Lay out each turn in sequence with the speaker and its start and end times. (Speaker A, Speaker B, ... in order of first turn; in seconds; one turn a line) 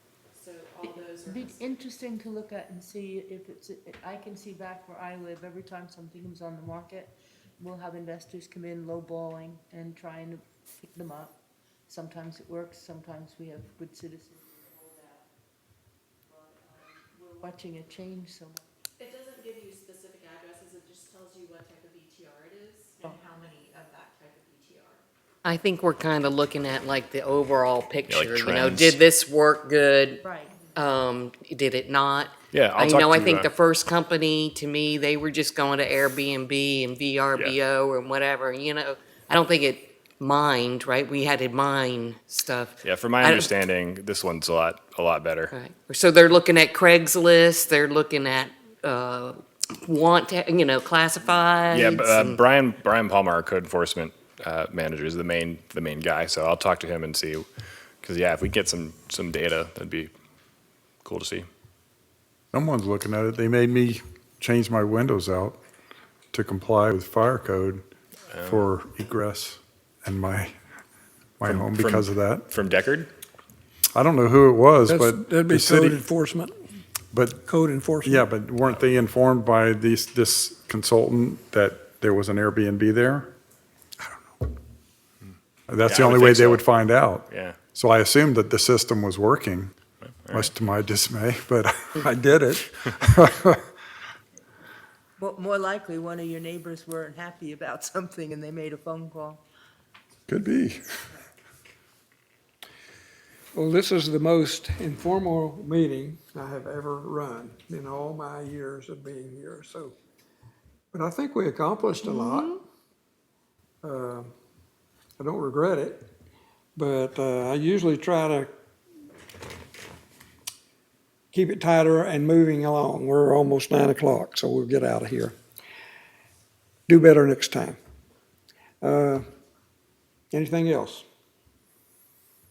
Speaker A: 0.3-1.6
Speaker B: 0.8-11.3
Speaker B: 11.9-15.2
Speaker B: 16.3-18.7
Speaker A: 19.0-25.0
Speaker C: 25.4-30.2
Speaker D: 28.1-29.0
Speaker B: 30.2-30.5
Speaker C: 30.8-43.5
Speaker D: 32.5-33.5
Speaker D: 42.8-45.5
Speaker C: 45.5-52.4
Speaker D: 51.7-57.4
Speaker D: 58.0-60.1
Speaker D: 61.0-61.5
Speaker E: 62.5-65.6
Speaker E: 66.3-67.8
Speaker E: 68.4-70.5
Speaker E: 71.4-72.5
Speaker D: 71.5-73.1
Speaker E: 73.9-76.0
Speaker F: 74.8-76.6
Speaker E: 77.1-77.4
Speaker F: 77.4-78.2
Speaker E: 78.0-83.3
Speaker E: 84.0-84.5
Speaker E: 85.7-89.7
Speaker D: 85.8-86.7
Speaker D: 87.3-87.6
Speaker D: 90.0-90.5
Speaker E: 90.3-92.1
Speaker F: 92.0-92.7
Speaker E: 92.8-93.6
Speaker B: 95.2-99.4
Speaker E: 100.3-100.8
Speaker F: 103.5-109.9
Speaker F: 110.9-112.6
Speaker F: 113.8-114.3
Speaker F: 115.2-116.1
Speaker F: 116.8-118.5
Speaker F: 121.3-125.4
Speaker F: 126.9-127.8
Speaker F: 128.8-129.3
Speaker F: 130.3-131.1